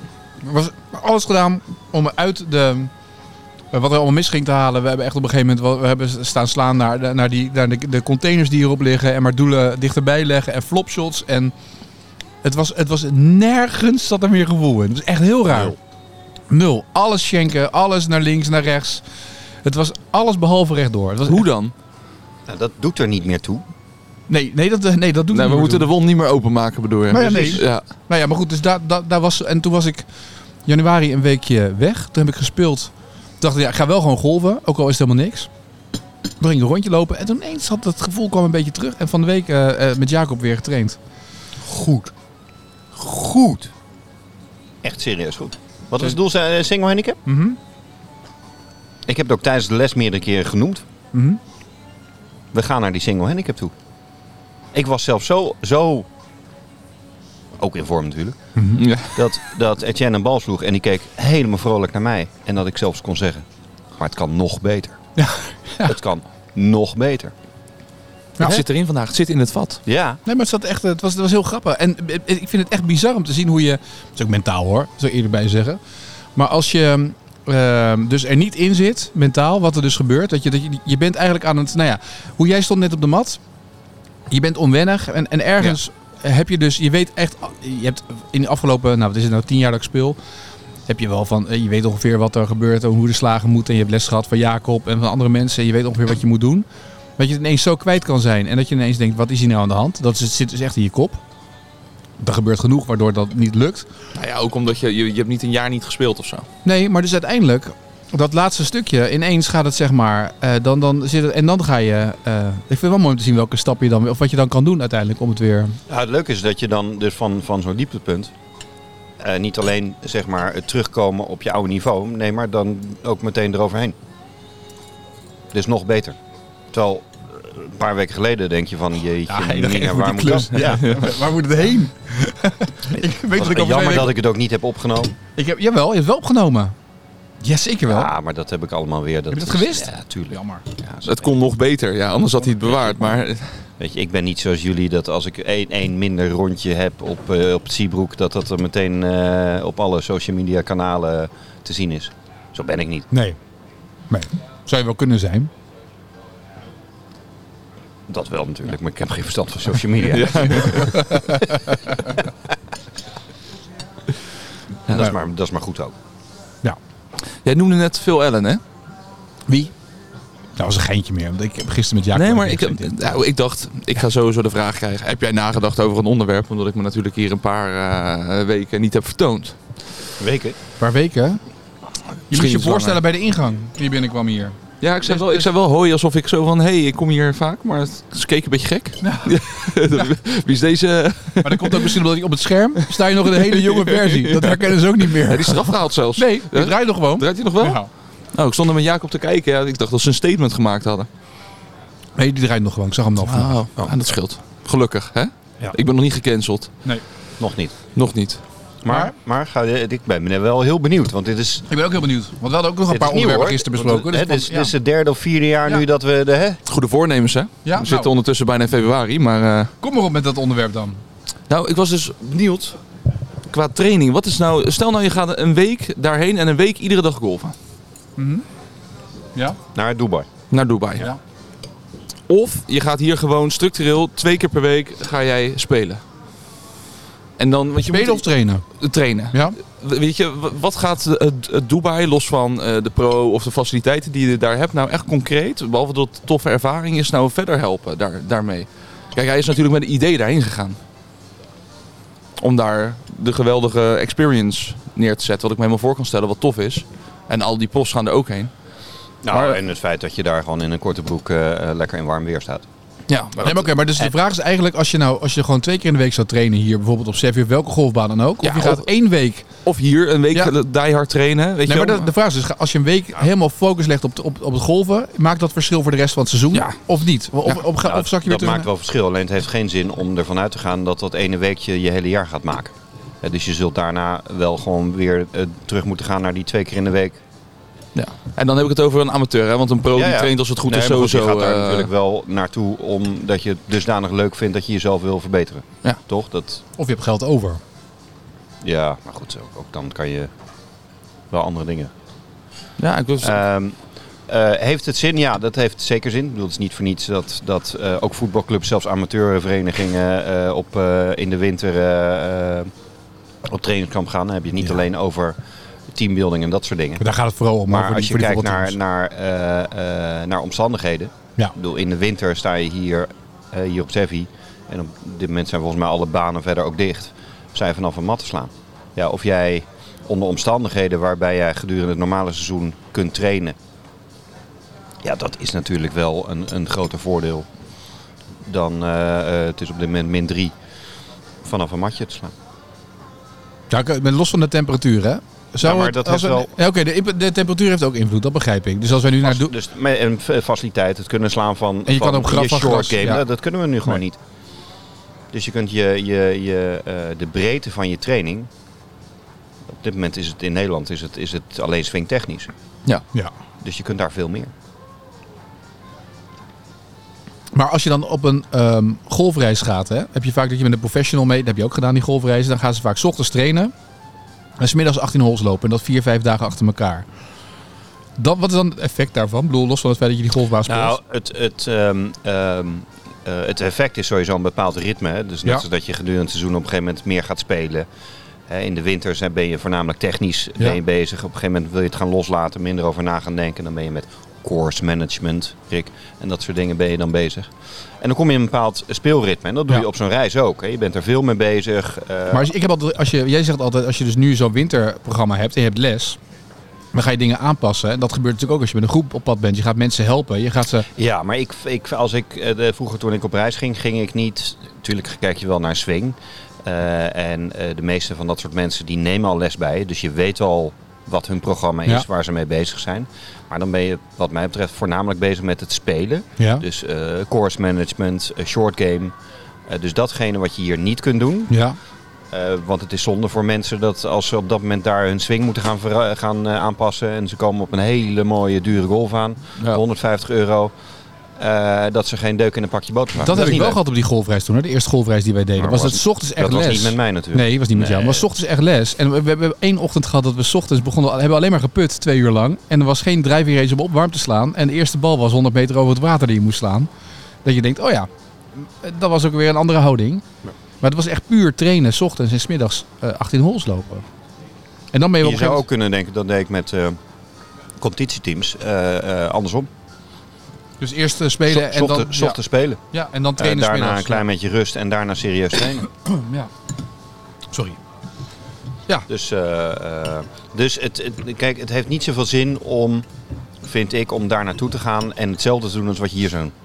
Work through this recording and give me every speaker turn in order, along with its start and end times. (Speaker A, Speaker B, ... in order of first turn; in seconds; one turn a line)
Speaker A: 0.4-2.9
Speaker A: 3.7-11.5
Speaker A: 12.4-15.8
Speaker B: 15.5-15.8
Speaker A: 16.5-19.0
Speaker A: 19.6-21.5
Speaker C: 21.3-21.7
Speaker B: 22.5-23.6
Speaker A: 24.3-25.9
Speaker C: 25.3-27.8
Speaker A: 27.1-30.1
Speaker A: 30.6-35.5
Speaker A: 36.4-41.0
Speaker B: 41.7-42.1
Speaker B: 42.9-43.7
Speaker B: 44.8-47.2
Speaker A: 47.2-47.6
Speaker B: 49.1-50.8
Speaker A: 51.1-51.4
Speaker B: 52.5-53.7
Speaker B: 54.7-56.1
Speaker B: 57.6-58.4
Speaker A: 58.6-58.8
Speaker C: 58.8-59.2
Speaker B: 59.1-63.4
Speaker B: 64.0-65.0
Speaker A: 65.2-66.0
Speaker B: 65.8-67.3
Speaker C: 68.4-69.8
Speaker B: 69.9-70.2
Speaker A: 70.2-75.8
Speaker A: 76.4-83.4
Speaker A: 84.3-90.2
Speaker A: 90.9-96.7
Speaker A: 97.2-101.2
Speaker A: 102.2-103.9
Speaker C: 104.2-106.5
Speaker A: 106.6-115.8
Speaker B: 115.9-118.3
Speaker B: 119.2-124.0
Speaker B: 125.5-126.2
Speaker B: 126.7-130.8
Speaker A: 129.3-134.2
Speaker C: 130.6-131.1
Speaker B: 132.9-135.1
Speaker A: 135.3-136.7
Speaker A: 137.4-138.1
Speaker B: 137.9-141.3
Speaker A: 139.3-140.6
Speaker C: 141.0-143.6
Speaker B: 143.8-153.1
Speaker A: 153.1-153.4
Speaker A: 154.1-155.5
Speaker B: 158.1-160.9
Speaker C: 160.1-161.2
Speaker A: 160.8-161.7
Speaker B: 164.9-165.9
Speaker C: 167.4-168.6
Speaker A: 170.6-173.1
Speaker C: 172.1-179.6
Speaker B: 180.2-180.6
Speaker A: 180.8-181.4
Speaker A: 182.3-185.5
Speaker C: 182.3-183.0
Speaker C: 184.8-192.0
Speaker A: 189.0-189.4
Speaker A: 191.4-197.9
Speaker C: 192.8-201.1
Speaker A: 202.2-203.6
Speaker C: 203.2-206.7
Speaker B: 207.4-207.7
Speaker C: 207.9-208.4
Speaker B: 208.8-211.7
Speaker A: 211.7-214.7
Speaker B: 212.9-216.6
Speaker C: 216.7-219.7
Speaker A: 217.7-218.1
Speaker A: 219.8-221.0
Speaker C: 221.5-222.8
Speaker C: 223.5-227.6
Speaker A: 228.2-228.4
Speaker B: 229.7-230.3
Speaker C: 230.5-231.1
Speaker C: 232.3-236.0
Speaker C: 237.4-250.8
Speaker A: 237.8-238.7
Speaker A: 239.3-239.6
Speaker C: 252.4-258.5
Speaker B: 259.2-262.7
Speaker C: 259.3-259.6
Speaker C: 263.1-264.1
Speaker A: 263.3-269.5
Speaker C: 268.4-268.8
Speaker C: 269.6-272.1
Speaker A: 271.7-278.7
Speaker B: 277.8-287.2
Speaker C: 287.9-291.9
Speaker B: 289.9-296.6
Speaker A: 296.8-297.6
Speaker B: 298.6-300.3
Speaker B: 301.3-301.9
Speaker C: 302.8-303.4
Speaker B: 303.2-303.8
Speaker B: 304.3-312.7
Speaker B: 313.4-315.3
Speaker B: 315.9-317.0
Speaker A: 317.0-318.8
Speaker B: 317.7-333.6
Speaker B: 335.0-337.5
Speaker B: 338.4-340.5
Speaker B: 341.4-342.3
Speaker A: 343.7-349.5
Speaker B: 345.6-346.5
Speaker B: 349.2-354.2
Speaker A: 351.9-353.2
Speaker B: 355.3-358.5
Speaker B: 359.7-362.5
Speaker B: 363.6-364.5
Speaker A: 367.5-373.7
Speaker A: 374.6-377.1
Speaker A: 378.2-380.9
Speaker B: 380.7-387.9
Speaker B: 388.5-402.5
Speaker A: 402.3-406.2
Speaker A: 406.9-410.9
Speaker B: 410.9-429.1
Speaker A: 426.4-426.6
Speaker B: 429.7-431.6
Speaker A: 431.5-431.8
Speaker B: 432.3-440.7
Speaker B: 441.4-443.8
Speaker A: 443.2-456.9
Speaker B: 445.6-448.3
Speaker A: 457.4-460.2
Speaker A: 460.8-464.1
Speaker A: 464.9-465.6
Speaker B: 465.2-467.0
Speaker B: 467.8-469.7
Speaker A: 470.8-472.4
Speaker B: 471.5-472.8
Speaker A: 472.9-474.2
Speaker B: 473.4-475.9
Speaker A: 475.9-476.5
Speaker A: 477.5-477.8
Speaker B: 479.1-483.1
Speaker B: 483.6-486.5